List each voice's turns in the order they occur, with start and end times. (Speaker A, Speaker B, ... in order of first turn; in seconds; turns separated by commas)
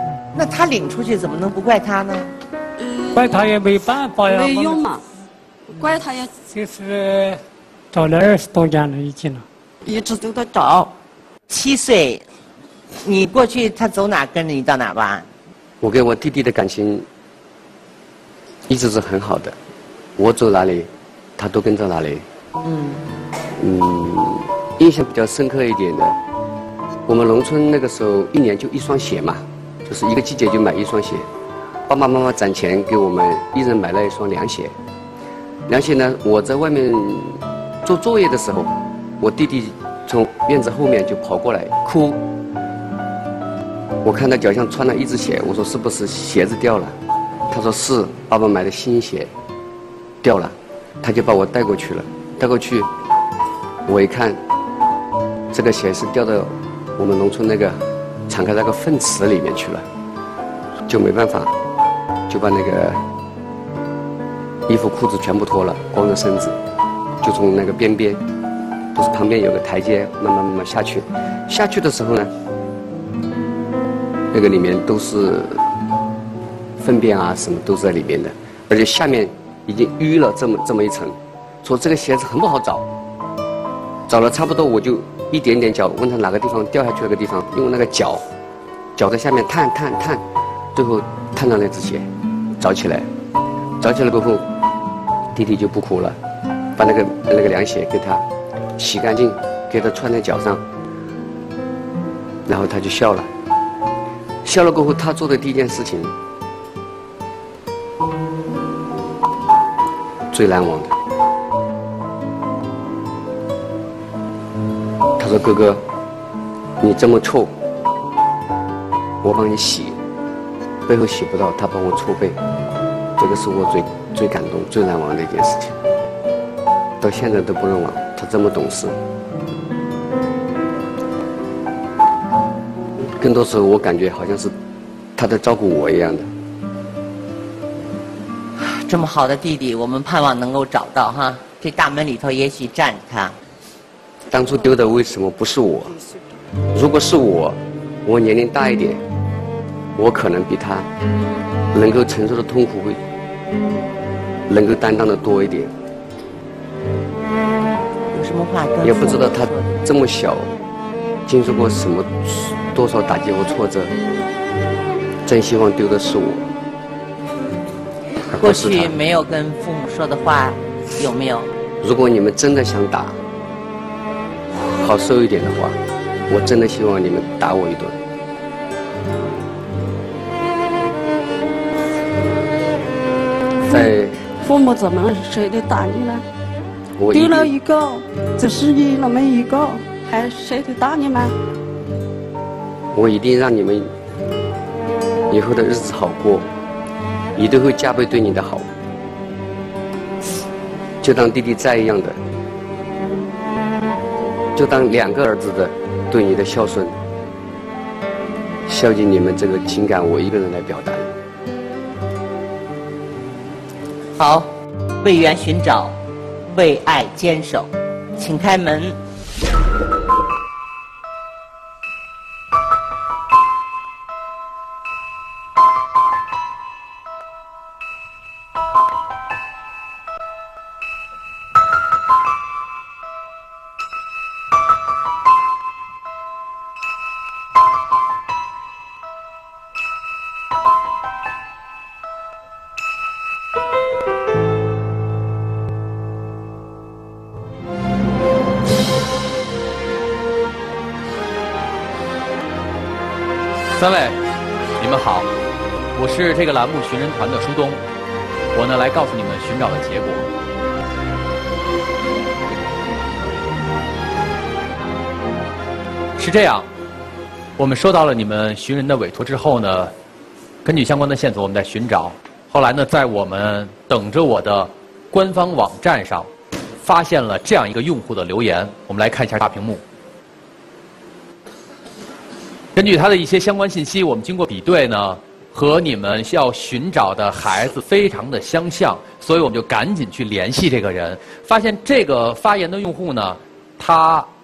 Speaker A: 0.3-2.3, Speaker B: 2.8-3.3, Speaker C: 3.1-4.9, Speaker B: 4.3-5.0, Speaker B: 5.7-6.4, Speaker C: 6.5-7.4, Speaker C: 7.9-9.4, Speaker B: 9.8-10.9, Speaker A: 11.5-12.2, Speaker A: 13.0-15.3, Speaker D: 15.8-17.1, Speaker D: 18.7-19.5, Speaker D: 20.2-22.2, Speaker A: 22.6-23.0, Speaker D: 23.6-26.2, Speaker D: 27.1-31.2, Speaker D: 31.9-34.7, Speaker D: 35.7-42.2, Speaker D: 44.0-46.9, Speaker D: 47.5-49.3, Speaker D: 50.2-52.9, Speaker D: 53.9-54.4, Speaker D: 55.5-59.8, Speaker D: 60.9-61.5, Speaker D: 62.3-63.0, Speaker D: 64.7-66.5, Speaker D: 67.2-68.2, Speaker D: 68.9-72.3, Speaker D: 74.3-75.6, Speaker D: 76.8-82.8, Speaker D: 84.1-88.2, Speaker D: 89.0-90.2, Speaker D: 90.7-92.1, Speaker D: 92.6-93.1, Speaker D: 93.8-94.5, Speaker D: 95.3-96.2, Speaker D: 96.8-98.2, Speaker D: 98.8-100.6, Speaker D: 102.5-103.3, Speaker D: 104.4-106.1, Speaker D: 110.3-110.9, Speaker D: 115.2-115.8, Speaker D: 116.8-117.5, Speaker D: 119.2-120.0, Speaker D: 120.9-122.4, Speaker D: 123.2-125.7, Speaker D: 127.0-129.0, Speaker D: 133.2-134.5, Speaker D: 135.2-136.3, Speaker A: 138.6-143.3, Speaker D: 144.3-146.0, Speaker D: 146.7-149.0, Speaker D: 149.9-150.9, Speaker D: 151.7-153.0, Speaker D: 154.5-155.7, Speaker A: 158.1-159.8, Speaker D: 158.8-160.6, Speaker D: 161.3-163.9, Speaker D: 165.2-166.4, Speaker D: 168.3-169.0, Speaker A: 168.3-171.5, Speaker D: 171.8-173.2, Speaker D: 174.5-175.8, Speaker D: 176.3-177.9, Speaker B: 183.7-186.2, Speaker D: 183.7-184.2, Speaker D: 187.0-187.5, Speaker B: 187.1-191.3, Speaker D: 192.9-193.9, Speaker D: 195.3-196.5, Speaker D: 197.3-198.7, Speaker D: 201.0-202.2, Speaker D: 204.6-207.0, Speaker D: 208.7-211.1, Speaker A: 214.2-214.5, Speaker A: 215.0-216.0, Speaker A: 216.5-219.0, Speaker E: 253.7-254.2, Speaker E: 254.8-255.3, Speaker E: 255.9-257.8, Speaker E: 258.5-260.3, Speaker E: 266.2-266.7, Speaker E: 267.6-269.9, Speaker E: 270.6-276.3, Speaker E: 276.8-279.8, Speaker E: 282.7-294.3